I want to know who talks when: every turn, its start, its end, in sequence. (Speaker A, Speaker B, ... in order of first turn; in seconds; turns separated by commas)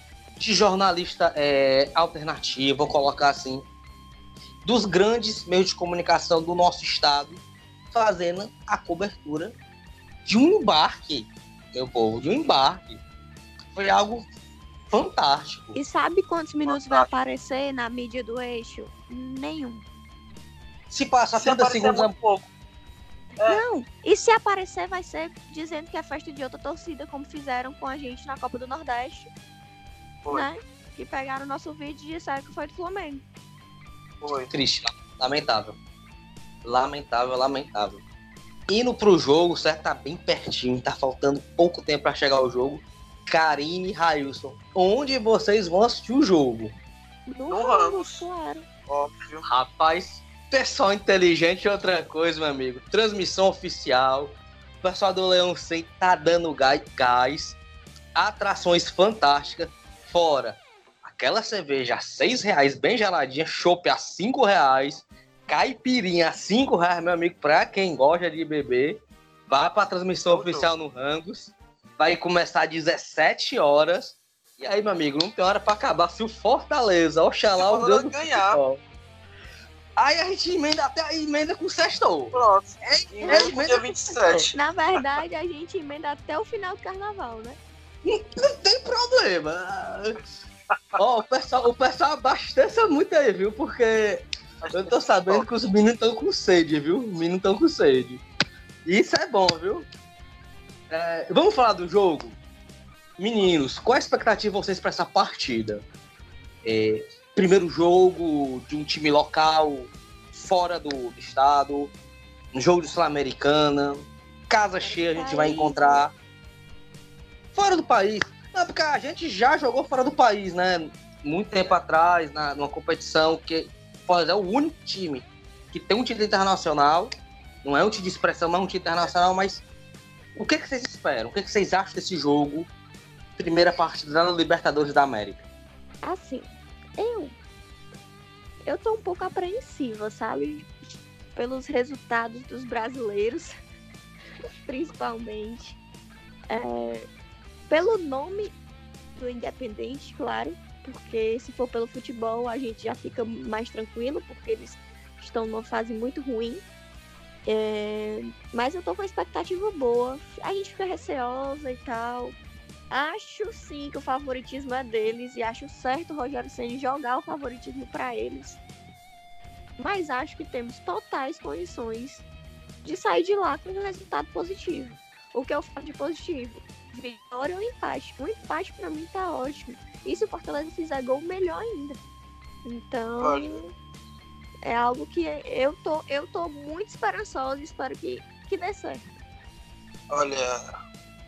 Speaker A: 0.4-3.6, Speaker A: 4.6-7.4, Speaker A: 7.9-9.5, Speaker A: 10.2-13.0, Speaker A: 13.7-14.2, Speaker A: 14.9-15.8, Speaker B: 15.7-19.8, Speaker C: 16.6-17.1, Speaker A: 20.9-22.1, Speaker C: 21.4-22.5, Speaker B: 23.4-29.3, Speaker B: 30.3-33.2, Speaker C: 34.2-34.5, Speaker A: 34.5-35.8, Speaker A: 36.6-38.0, Speaker A: 38.7-46.7, Speaker B: 47.3-48.6, Speaker C: 47.5-48.3, Speaker C: 48.9-49.4, Speaker A: 49.5-57.6, Speaker A: 58.1-78.8, Speaker C: 70.3-70.7, Speaker C: 77.5-78.6, Speaker A: 80.0-84.5, Speaker C: 82.3-84.5, Speaker B: 83.2-87.6, Speaker A: 88.0-90.2, Speaker A: 91.0-98.2, Speaker C: 94.6-95.5, Speaker A: 98.8-99.9, Speaker A: 100.9-102.3, Speaker A: 103.2-105.8, Speaker A: 106.6-111.9, Speaker A: 112.5-116.1, Speaker B: 114.8-116.0, Speaker A: 117.5-127.1, Speaker A: 127.6-129.6, Speaker A: 130.3-132.7, Speaker A: 133.4-135.4, Speaker B: 136.0-137.3, Speaker B: 138.6-140.7, Speaker B: 141.3-143.5, Speaker B: 144.6-145.8, Speaker B: 146.5-147.1, Speaker B: 147.7-148.5, Speaker B: 149.2-156.6, Speaker B: 157.4-162.3, Speaker B: 162.9-168.6, Speaker B: 169.8-172.2, Speaker B: 172.8-182.0, Speaker B: 182.6-183.7, Speaker C: 183.2-183.6, Speaker B: 184.6-189.0, Speaker C: 190.1-190.8